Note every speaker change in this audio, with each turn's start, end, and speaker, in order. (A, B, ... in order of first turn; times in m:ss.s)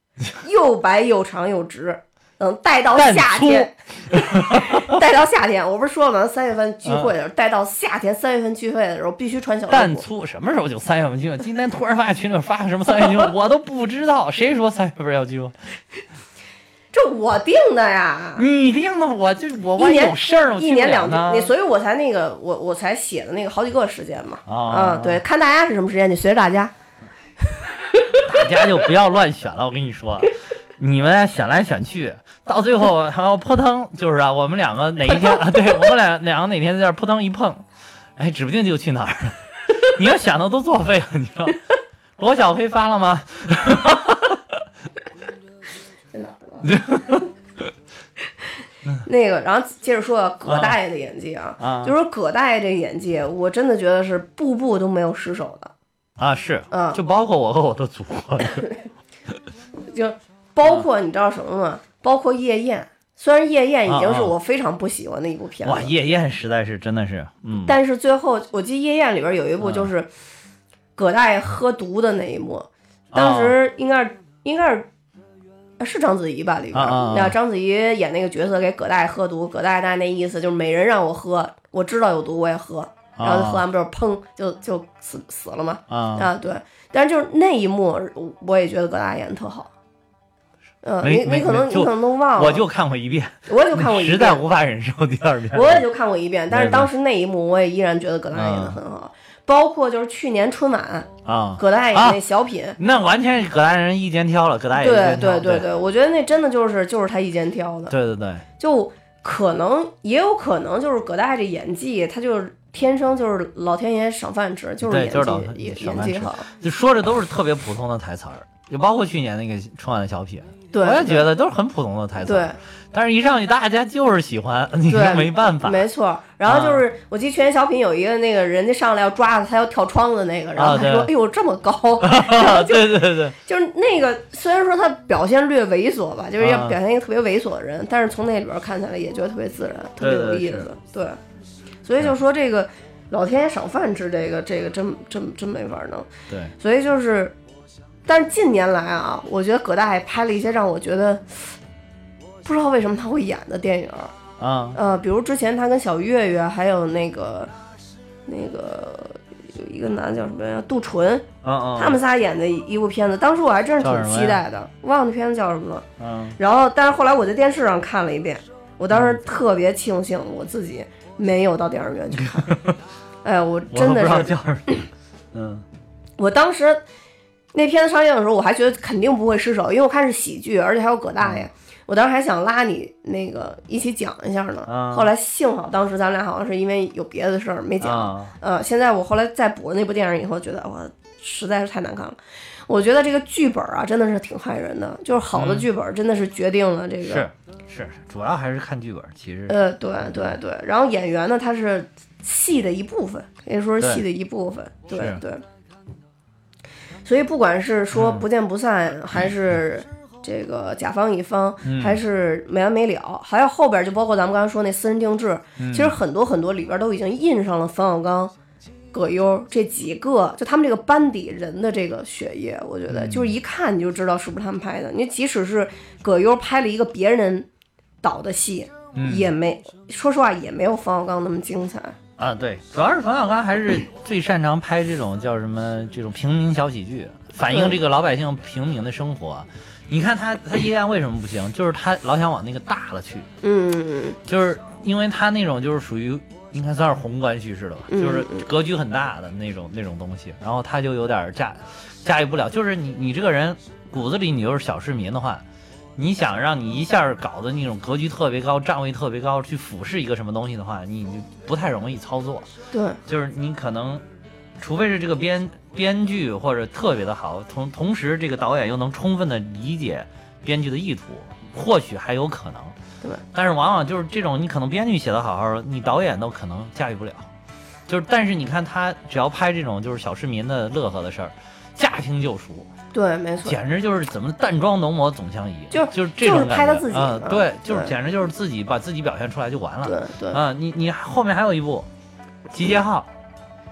0:00.3-0:10.0 A
0:02.9-0:05.0 B
0:06.8-0:07.1 B
0:09.7-0:15.5 B
0:16.9-0:18.4 A
0:18.4-0:21.5 B
0:19.8-0:26.7 A
0:24.5-0:25.2 B
0:28.2-0:37.6 B
0:38.2-0:41.6 B
0:42.2-0:44.6 B
0:46.1-0:46.7 A
0:46.6-0:47.3 B
0:49.0-0:55.7 A
0:50.5-0:50.8 B
0:51.6-0:51.9 B
0:56.2-0:58.7 B
0:56.7-0:57.0 A
0:59.9-1:05.9 A
1:03.9-1:04.4 B
1:05.6-1:07.8 B
1:07.6-1:10.1 A
1:09.6-1:09.9 B
1:11.0-1:14.9 A
1:13.1-1:13.6 B
1:15.8-1:29.7 A
1:16.7-1:17.4 B
1:23.2-1:23.6 B
1:25.9-1:26.3 B
1:30.8-1:32.7 A
1:31.0-1:35.9 B
1:33.5-1:34.4 A
1:35.5-1:42.8 A
1:36.5-1:36.9 B
1:38.3-1:38.8 B
1:41.2-1:42.2 B
1:42.8-1:45.7 B
1:44.8-1:47.9 A
1:47.9-1:48.4 B
1:48.6-1:56.5 A
1:54.8-2:05.9 B
2:00.7-2:01.3 A
2:02.2-2:02.6 A
2:04.9-2:21.2 A
2:06.5-2:06.8 B
2:10.6-2:11.1 B
2:12.0-2:13.4 B
2:16.4-2:16.8 B
2:20.0-2:20.7 B
2:21.8-2:26.1 A
2:26.6-2:27.4 A
2:28.1-2:31.6 A
2:32.4-2:34.1 A
2:34.4-2:34.8 B
2:34.8-2:37.5 A
2:38.3-2:45.9 A
2:41.4-2:42.0 B
2:43.8-2:44.4 B
2:46.0-2:46.4 B
2:46.4-2:52.6 A
2:48.9-2:49.2 B
2:52.2-2:52.8 B
2:53.2-2:54.8 A
2:53.7-2:55.6 B
2:56.2-2:56.8 A
2:57.5-3:17.3 A
3:04.7-3:05.1 B
3:07.8-3:08.3 B
3:15.3-3:15.7 B
3:17.0-3:20.4 B
3:19.5-3:25.4 A
3:24.9-3:25.2 B
3:27.0-3:38.3 A
3:27.9-3:28.3 B
3:31.6-3:32.0 B
3:35.6-3:36.0 B
3:38.9-3:47.5 A
3:42.9-3:43.3 B
3:48.0-3:52.0 A
3:48.9-3:49.3 B
3:52.2-4:03.3 B
3:57.5-3:57.8 A
4:03.4-4:04.2 A
4:04.2-4:15.4 B
4:07.9-4:08.5 A
4:16.0-4:22.5 B
4:22.7-4:23.0 A
4:23.0-4:24.0 B
4:24.6-4:32.8 B
4:33.3-4:37.3 B
4:37.9-4:42.7 B
4:42.9-4:43.6 A
4:43.4-4:51.9 B
4:45.7-4:47.9 A
4:49.8-4:50.4 A
4:52.5-4:53.1 B